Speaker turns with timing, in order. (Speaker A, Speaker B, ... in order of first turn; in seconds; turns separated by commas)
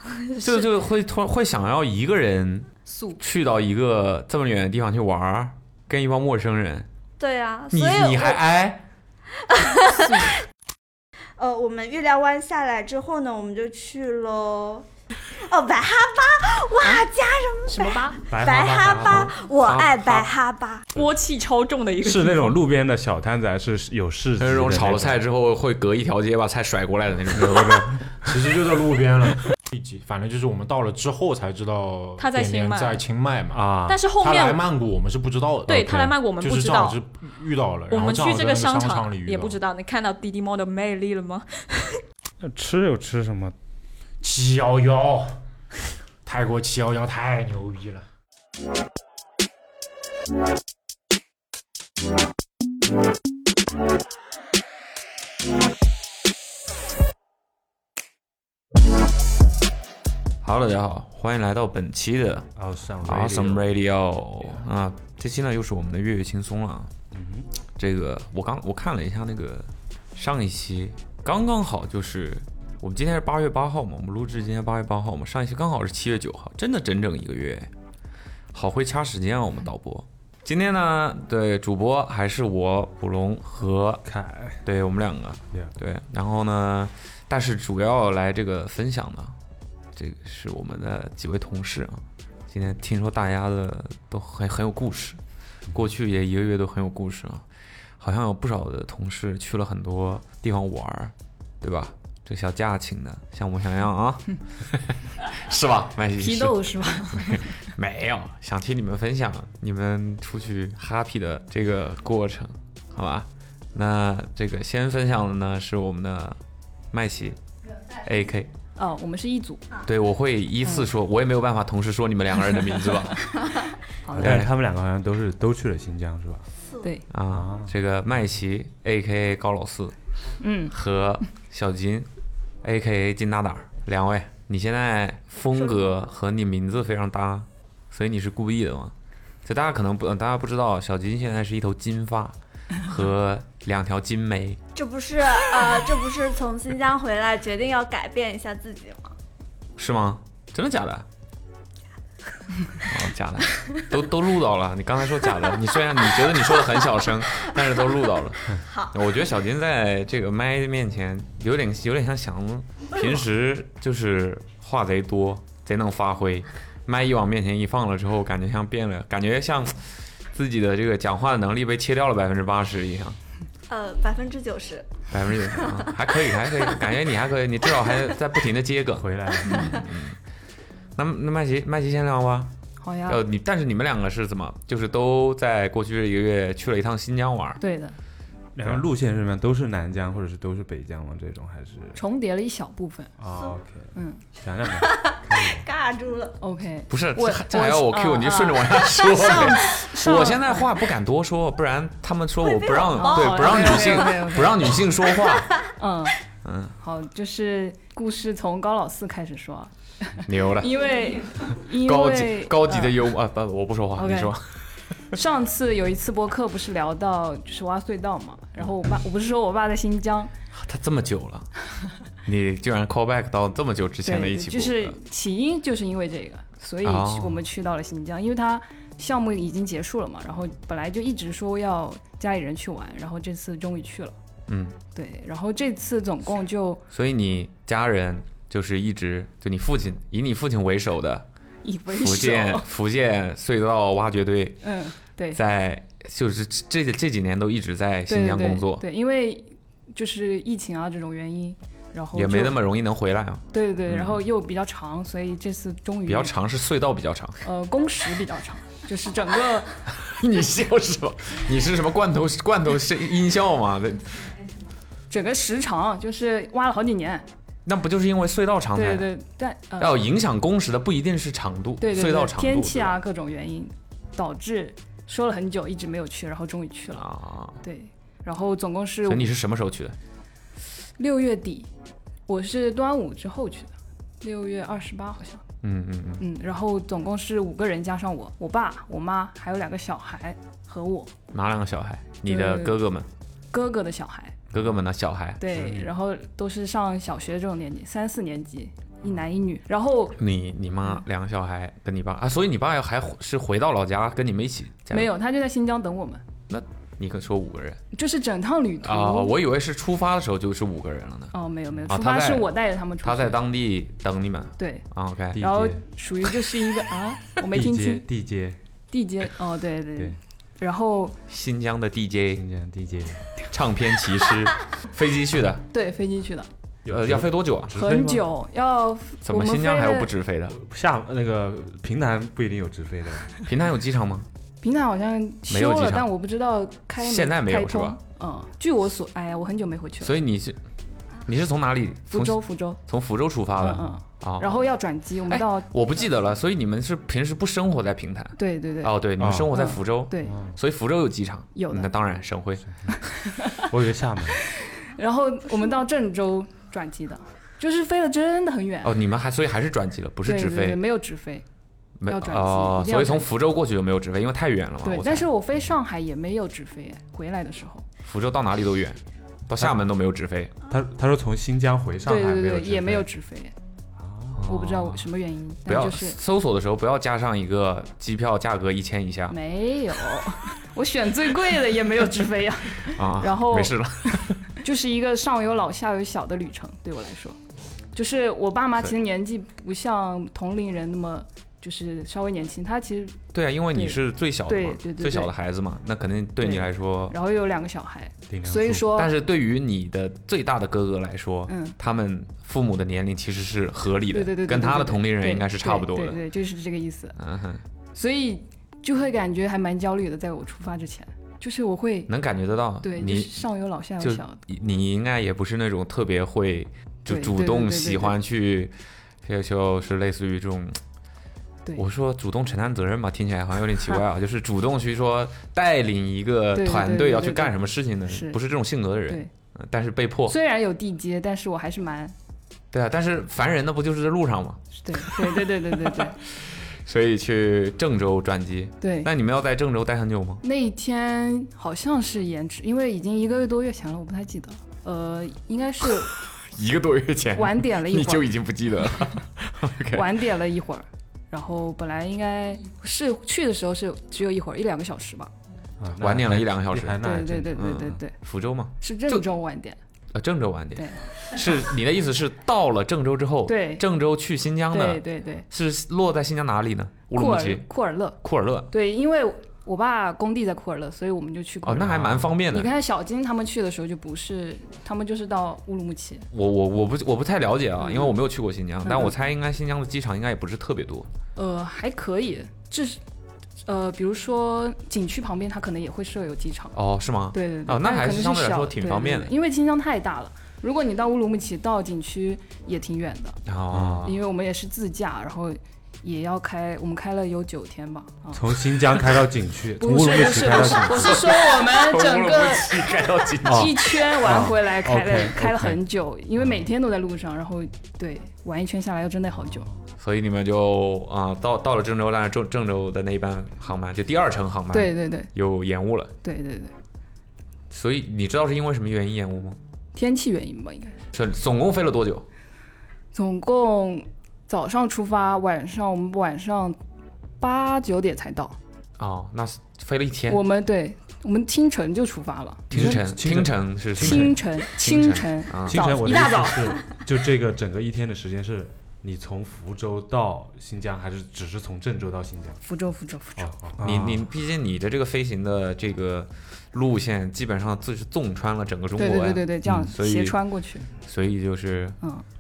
Speaker A: 0.3-0.6, Speaker B: 0.4-2.7, Speaker B: 3.2-6.9, Speaker A: 7.2-8.4, Speaker B: 7.7-8.8, Speaker A: 9.5-10.3, Speaker A: 11.4-14.9, Speaker A: 15.5-20.9, Speaker C: 17.7-18.2, Speaker D: 18.3-19.4, Speaker B: 19.1-20.3, Speaker C: 20.9-22.6, Speaker D: 22.0-25.2, Speaker B: 24.4-28.2, Speaker D: 27.3-28.0, Speaker E: 28.2-39.6, Speaker C: 32.2-33.0, Speaker D: 33.5-34.0, Speaker C: 33.9-34.6, Speaker C: 35.7-37.0, Speaker C: 37.9-42.0, Speaker D: 42.4-43.5, Speaker E: 44.2-45.4, Speaker E: 46.2-48.0, Speaker B: 60.4-62.5, Speaker D: 62.6-63.7, Speaker B: 63.0-66.9, Speaker D: 67.1-67.5, Speaker B: 67.8-77.7, Speaker B: 78.5-84.0, Speaker D: 84.0-84.7, Speaker B: 84.6-89.3, Speaker B: 90.0-95.2, Speaker B: 95.7-97.4, Speaker B: 98.0-116.4, Speaker F: 106.2-107.5, Speaker B: 116.9-117.4, Speaker B: 117.9-118.5, Speaker F: 118.8-119.7, Speaker B: 119.8-123.2, Speaker F: 124.0-124.4, Speaker B: 124.1-124.5, Speaker D: 124.1-126.5, Speaker B: 127.1-129.9, Speaker D: 127.3-127.7, Speaker F: 130.4-130.7, Speaker B: 130.7-132.1, Speaker B: 132.6-138.9, Speaker A: 135.5-135.9, Speaker B: 139.4-144.6, Speaker A: 144.8-149.1, Speaker B: 149.8-151.1, Speaker B: 152.8-173.2, Speaker A: 158.6-158.9, Speaker A: 173.7-174.9, Speaker B: 175.1-180.2, Speaker A: 175.5-175.9, Speaker D: 178.9-179.8, Speaker B: 181.0-182.5, Speaker F: 182.8-183.2, Speaker B: 183.1-187.6, Speaker F: 187.6-187.9, Speaker D: 188.6-192.0, Speaker F: 191.9-193.1, Speaker D: 193.2-195.7, Speaker F: 193.9-194.2, Speaker A: 194.8-196.4, Speaker F: 196.4-200.7, Speaker B: 196.9-205.5, Speaker A: 202.4-204.2, Speaker F: 202.9-204.7, Speaker F: 205.8-206.2, Speaker B: 206.4-206.8, Speaker F: 206.8-212.9, Speaker B: 210.3-210.8, Speaker B: 211.7-214.6, Speaker F: 214.0-214.3, Speaker F: 215.1-220.3, Speaker B: 220.6-221.5, Speaker B: 222.2-224.9, Speaker F: 224.0-234.1, Speaker B: 226.8-227.4, Speaker B: 234.5-234.8, Speaker F: 234.9-236.8, Speaker B: 236.9-241.3, Speaker F: 241.6-242.7, Speaker B: 241.9-244.6, Speaker F: 244.6-245.4, Speaker B: 245.3-248.8, Speaker F: 248.1-252.6, Speaker B: 252.1-254.2, Speaker F: 253.5-256.3, Speaker B: 256.1-257.4, Speaker F: 257.4-259.7, Speaker B: 259.9-264.3, Speaker F: 265.1-267.2, Speaker B: 267.7-269.1, Speaker F: 268.8-270.0, Speaker B: 269.8-272.9, Speaker F: 271.8-277.1, Speaker B: 277.0-277.6, Speaker F: 277.6-279.3, Speaker B: 279.1-280.0, Speaker F: 281.0-281.7, Speaker F: 282.3-285.4, Speaker B: 285.6-286.2, Speaker F: 286.2-291.1, Speaker B: 291.3-293.1, Speaker F: 292.3-292.8, Speaker F: 293.5-294.4, Speaker B: 294.5-295.8, Speaker F: 295.4-300.2, Speaker B: 300.2-305.1, Speaker F: 304.9-306.2, Speaker B: 306.5-307.8, Speaker F: 307.9-309.3, Speaker B: 308.8-311.3, Speaker F: 311.3-313.4, Speaker B: 311.9-312.5, Speaker B: 313.0-315.5, Speaker F: 314.6-314.9, Speaker D: 315.3-315.8, Speaker F: 315.4-318.1, Speaker D: 317.5-318.6, Speaker F: 318.9-321.2, Speaker B: 321.3-322.4, Speaker D: 322.4-323.3, Speaker B: 323.4-325.6, Speaker F: 325.7-326.5, Speaker D: 326.9-328.3, Speaker B: 326.9-327.7, Speaker F: 327.7-330.1, Speaker B: 329.2-330.6, Speaker D: 330.5-333.3, Speaker B: 333.5-334.3, Speaker F: 334.6-340.1, Speaker B: 335.5-336.1, Speaker B: 337.0-338.0, Speaker B: 340.0-340.6, Speaker B: 341.3-344.6, Speaker F: 342.1-342.8, Speaker F: 343.6-345.7, Speaker B: 345.3-352.6, Speaker F: 348.4-349.0, Speaker D: 349.2-349.6, Speaker F: 349.5-350.4, Speaker D: 350.2-350.5, Speaker F: 351.6-351.9, Speaker F: 352.9-353.6, Speaker D: 353.6-354.4, Speaker F: 354.4-358.9, Speaker B: 358.8-360.8, Speaker F: 360.2-361.4, Speaker B: 362.0-365.3, Speaker F: 362.1-363.3, Speaker F: 364.8-367.9, Speaker B: 368.1-370.5, Speaker D: 370.7-373.1, Speaker F: 372.1-373.5, Speaker D: 374.0-374.4, Speaker B: 374.4-375.0, Speaker F: 374.4-376.2, Speaker B: 375.7-379.4, Speaker F: 379.3-387.4, Speaker B: 382.8-384.5, Speaker F: 387.9-393.2, Speaker B: 393.3-397.1, Speaker F: 393.7-395.3, Speaker F: 396.4-399.1, Speaker D: 398.3-398.9, Speaker B: 398.9-406.2, Speaker F: 401.5-401.8, Speaker F: 404.1-407.2, Speaker B: 407.2-407.6, Speaker F: 407.9-412.1, Speaker B: 412.1-413.4, Speaker F: 412.8-414.4, Speaker B: 414.0-420.8, Speaker F: 417.1-418.2, Speaker B: 421.8-430.4, Speaker F: 426.5-427.5, Speaker F: 428.1-428.4, Speaker F: 430.3-432.1, Speaker B: 432.7-440.4, Speaker F: 434.8-436.2, Speaker F: 438.8-439.1, Speaker F: 440.4-446.1, Speaker B: 446.2-450.2, Speaker F: 447.4-448.3, Speaker F: 449.9-455.3, Speaker D: 455.8-457.8, Speaker B: 456.0-459.2, Speaker F: 457.0-458.1, Speaker F: 458.8-459.8, Speaker B: 460.1-467.7, Speaker F: 460.8-461.0, Speaker F: 463.5-463.8, Speaker F: 464.7-465.4, Speaker F: 467.1-468.2, Speaker B: 468.2-468.7, Speaker F: 468.7-476.3, Speaker B: 471.6-472.7, Speaker B: 476.3-481.1, Speaker F: 477.8-478.1, Speaker F: 478.8-479.1, Speaker F: 481.4-483.0, Speaker F: 483.7-486.8, Speaker B: 486.8-489.3, Speaker F: 487.3-493.4, Speaker B: 493.5-494.2, Speaker D: 493.7-494.0, Speaker F: 494.0-498.6, Speaker D: 498.3-501.3, Speaker F: 499.8-502.8, Speaker B: 500.5-504.4, Speaker D: 503.4-505.8, Speaker F: 503.5-509.7, Speaker B: 510.0-516.1, Speaker F: 514.7-515.3, Speaker F: 516.2-516.7, Speaker B: 517.7-519.6, Speaker F: 520.0-521.0, Speaker B: 521.1-522.3, Speaker F: 523.1-526.8, Speaker F: 527.4-528.6, Speaker B: 529.0-530.4, Speaker F: 530.3-533.0, Speaker D: 532.7-534.4, Speaker B: 532.7-535.9, Speaker F: 534.0-536.8, Speaker D: 535.7-542.6, Speaker F: 542.6-543.6, Speaker D: 543.4-544.2, Speaker B: 543.8-550.4, Speaker F: 549.0-550.9, Speaker B: 551.0-552.0